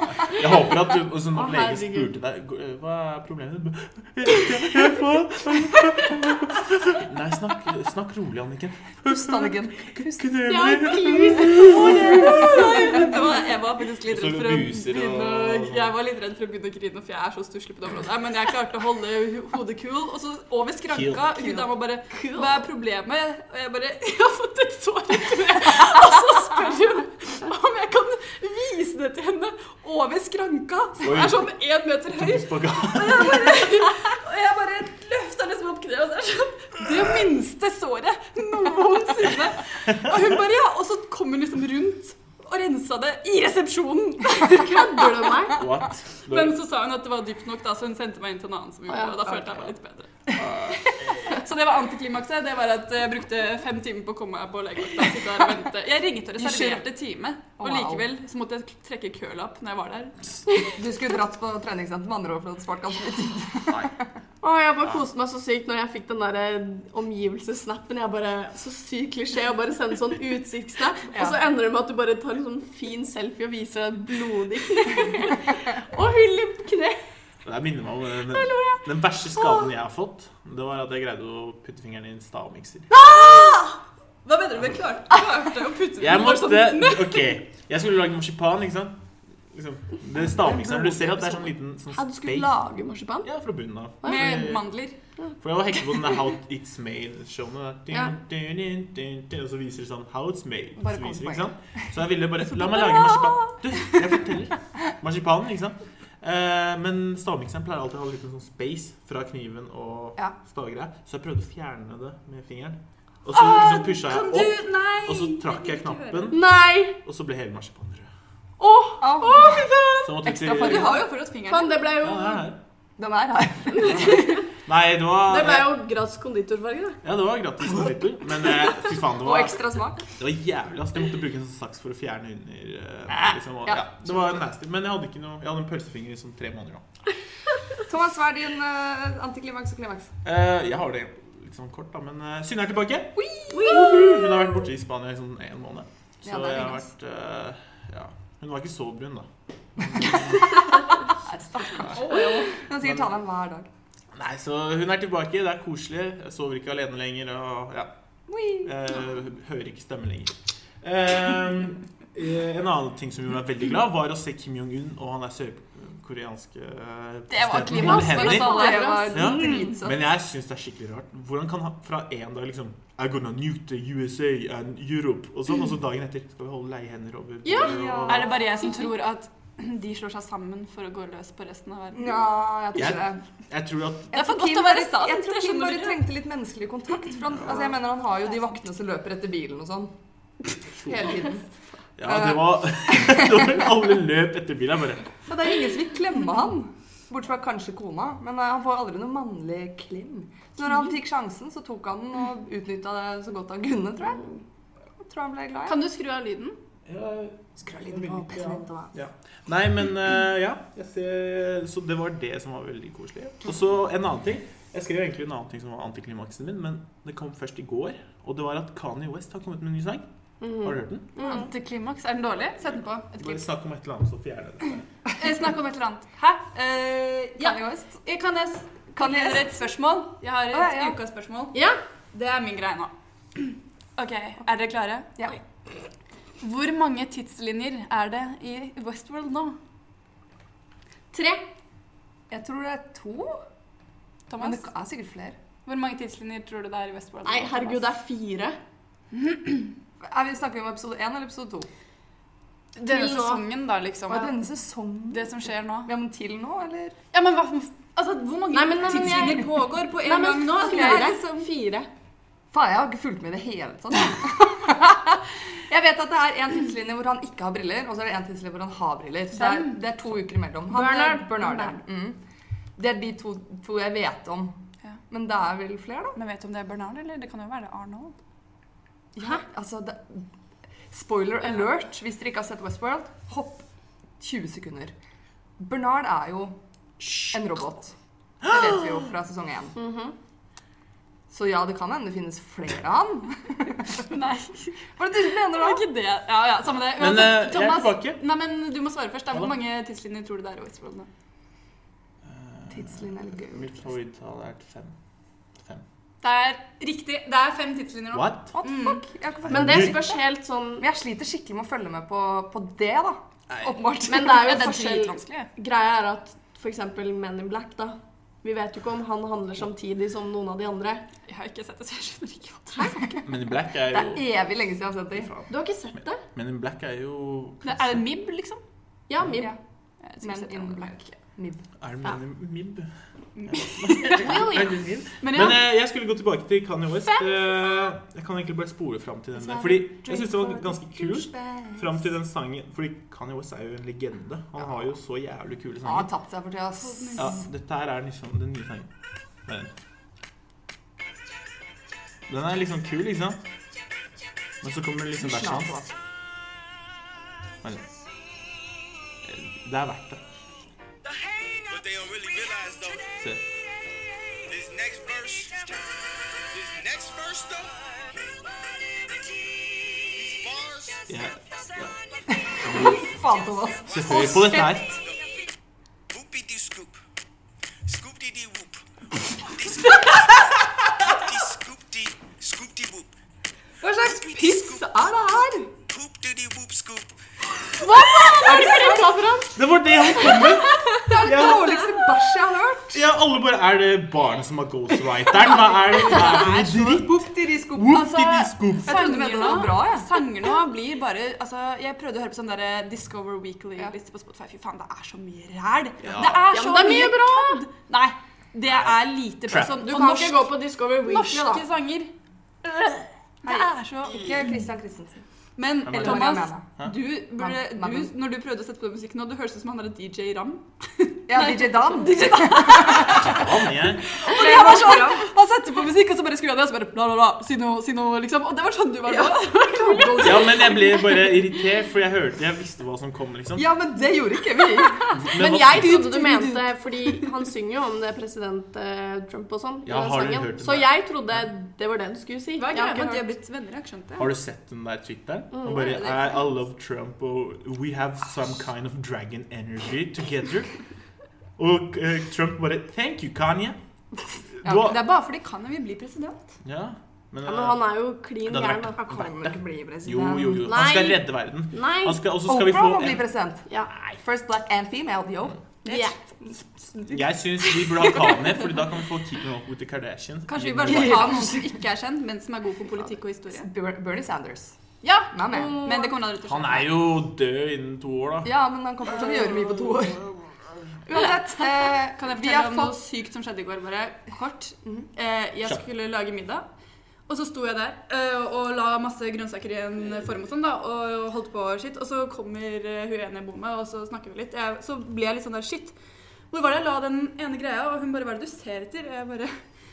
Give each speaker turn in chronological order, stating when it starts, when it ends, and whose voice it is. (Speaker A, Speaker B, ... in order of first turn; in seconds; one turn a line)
Speaker A: 0.2-9.5
Speaker B: 1.5-1.9
Speaker C: 9.1-10.4
Speaker A: 10.2-13.1
Speaker B: 10.4-13.0
Speaker D: 12.0-45.3
Speaker C: 12.6-14.3
Speaker A: 14.1-16.0
Speaker A: 20.9-21.4
Speaker B: 22.1-22.6
Speaker A: 31.0-31.5
Speaker A: 32.1-33.8
Speaker B: 44.4-45.6
Speaker A: 45.5-46.6
Speaker D: 46.3-60.2
Speaker B: 48.9-49.5
Speaker A: 50.4-50.9
Speaker C: 56.4-56.9
Speaker C: 57.6-58.0
Speaker C: 60.6-64.0
Speaker B: 64.4-77.0
Speaker C: 71.1-71.4
Speaker A: 77.4-83.0
Speaker B: 78.4-78.8
Speaker D: 82.9-87.4
Speaker A: 86.0-92.5
Speaker B: 91.9-93.3
Speaker A: 93.2-94.6
Speaker B: 94.0-94.4
Speaker D: 94.0-95.0
Speaker A: 95.4-116.5
Speaker D: 100.9-101.4
Speaker D: 113.3-116.4
Speaker B: 116.3-117.0
Speaker A: 117.0-118.1
Speaker B: 118.6-120.2
Speaker C: 119.0-119.6
Speaker A: 120.0-121.0
Speaker C: 120.2-121.1
Speaker D: 120.4-121.9
Speaker B: 121.5-122.5
Speaker A: 122.0-122.6
Speaker C: 123.0-124.4
Speaker B: 123.7-124.3
Speaker A: 123.8-125.8
Speaker B: 125.3-127.0
Speaker A: 127.0-136.9
Speaker C: 129.0-130.1
Speaker C: 133.1-134.4
Speaker C: 137.8-140.1
Speaker A: 140.2-150.5
Speaker C: 143.2-144.0
Speaker B: 143.5-144.3
Speaker C: 146.2-146.9
Speaker C: 151.2-153.7
Speaker A: 151.8-152.0
Speaker D: 151.8-152.5
Speaker A: 152.8-153.1
Speaker A: 154.1-157.9
Speaker C: 158.3-158.8
Speaker A: 158.6-168.6
Speaker D: 167.3-169.0
Speaker B: 167.7-169.8
Speaker C: 167.9-170.0
Speaker A: 169.1-178.4
Speaker B: 177.4-177.8
Speaker C: 177.6-178.4
Speaker D: 178.1-182.3
Speaker C: 181.9-183.2
Speaker A: 182.7-184.1
Speaker C: 184.1-189.9
Speaker D: 184.1-186.1
Speaker A: 187.3-187.6
Speaker C: 190.8-193.7
Speaker A: 192.0-195.2
Speaker C: 195.2-204.4
Speaker C: 205.0-205.8
Speaker D: 205.7-206.6
Speaker A: 206.9-220.1
Speaker C: 207.6-208.9
Speaker B: 220.4-221.5
Speaker A: 220.6-221.1
Speaker D: 221.2-223.4
Speaker A: 223.2-224.8
Speaker D: 225.2-231.6
Speaker C: 227.4-228.0
Speaker C: 229.0-229.6
Speaker C: 230.5-231.0
Speaker B: 231.5-231.8
Speaker D: 232.1-235.2
Speaker D: 236.4-239.6
Speaker B: 241.1-241.5
Speaker C: 242.3-243.4
Speaker D: 244.3-244.6
Speaker C: 244.4-245.4
Speaker D: 245.7-247.9
Speaker B: 247.2-248.6
Speaker D: 249.1-249.7
Speaker C: 250.0-251.7
Speaker D: 252.8-254.4
Speaker B: 252.8-253.4
Speaker C: 254.1-257.0
Speaker D: 255.1-255.9
Speaker D: 257.1-261.5
Speaker B: 258.5-261.9
Speaker C: 259.0-259.3
Speaker C: 260.6-261.2
Speaker C: 262.5-272.2
Speaker D: 269.3-269.8
Speaker B: 270.7-271.8
Speaker C: 272.8-274.6
Speaker C: 275.1-276.2
Speaker D: 276.1-278.2
Speaker C: 279.1-280.3
Speaker C: 280.9-283.6
Speaker C: 284.2-284.9
Speaker C: 285.6-286.6
Speaker C: 287.2-289.8
Speaker A: 288.4-289.0
Speaker B: 289.8-290.1
Speaker C: 291.3-294.0
Speaker D: 294.0-301.1
Speaker C: 295.0-295.8
Speaker A: 296.9-298.2
Speaker A: 302.2-304.9
Speaker C: 302.7-303.9
Speaker D: 306.2-309.1
Speaker A: 308.1-308.6
Speaker C: 308.6-310.2
Speaker A: 309.4-310.0
Speaker B: 309.5-310.9
Speaker C: 310.8-314.7
Speaker A: 313.5-313.8
Speaker B: 314.1-321.1
Speaker D: 314.2-315.5
Speaker D: 321.3-323.2
Speaker A: 323.2-324.4
Speaker C: 323.9-325.3
Speaker A: 325.2-325.5
Speaker B: 325.5-326.2
Speaker A: 326.0-328.0
Speaker D: 327.6-328.6
Speaker B: 329.1-329.6
Speaker D: 330.0-331.1
Speaker C: 330.2-331.6
Speaker A: 331.8-332.9
Speaker D: 333.4-335.6
Speaker A: 333.5-346.1
Speaker C: 339.4-342.0
Speaker C: 345.8-347.3
Speaker D: 346.8-347.3
Speaker A: 347.2-348.9
Speaker A: 349.5-349.7
Speaker A: 352.3-353.4
Speaker A: 354.6-355.9
Speaker C: 355.2-355.9
Speaker A: 359.2-360.2
Speaker E: 361.1-363.2
Speaker A: 363.1-363.4
Speaker E: 364.4-368.2
Speaker E: 369.6-371.1
Speaker A: 371.1-371.9
Speaker C: 372.3-374.9
Speaker A: 372.6-373.1
Speaker A: 373.9-375.0
Speaker E: 374.0-374.4
Speaker E: 376.1-377.0
Speaker E: 377.9-378.8
Speaker E: 379.4-383.1
Speaker C: 383.8-385.7
Speaker E: 384.0-384.9
Speaker E: 385.9-387.2
Speaker B: 387.8-391.1
Speaker D: 388.2-388.7
Speaker C: 388.3-389.3
Speaker A: 389.6-391.9
Speaker C: 391.0-393.1
Speaker A: 392.9-399.0
Speaker C: 395.6-400.1
Speaker D: 397.9-412.1
Speaker A: 406.0-406.5
Speaker B: 406.5-407.6
Speaker A: 408.7-409.8
Speaker B: 409.8-411.6
Speaker D: 413.4-414.5
Speaker C: 413.4-415.2
Speaker D: 415.6-430.9
Speaker A: 415.9-416.9
Speaker C: 415.9-416.6
Speaker C: 417.4-418.1
Speaker C: 421.3-423.5
Speaker A: 423.1-424.1
Speaker C: 424.2-425.3
Speaker C: 429.1-430.9
Speaker A: 430.2-433.7
Speaker C: 433.6-435.2
Speaker A: 435.1-436.1
Speaker B: 435.3-443.3
Speaker D: 435.7-437.1
Speaker A: 439.9-441.4
Speaker D: 442.6-444.3
Speaker A: 444.2-450.7
Speaker B: 445.5-446.0
Speaker D: 445.8-446.3
Speaker A: 451.6-453.8
Speaker A: 454.6-455.0
Speaker C: 454.6-455.0
Speaker D: 454.7-456.5
Speaker A: 456.6-457.9
Speaker B: 457.4-459.0
Speaker A: 458.4-463.3
Speaker C: 459.0-460.7
Speaker B: 460.6-462.2
Speaker C: 462.4-463.7
Speaker C: 464.2-468.6
Speaker B: 465.9-466.1
Speaker A: 467.0-471.5
Speaker D: 470.5-473.7
Speaker C: 470.8-471.8
Speaker C: 473.5-474.8
Speaker D: 475.0-477.1
Speaker C: 475.3-475.9
Speaker B: 475.5-476.2
Speaker A: 476.4-478.5
Speaker C: 478.4-480.3
Speaker C: 481.1-483.0
Speaker D: 481.2-486.7
Speaker D: 487.3-495.9
Speaker D: 496.5-499.5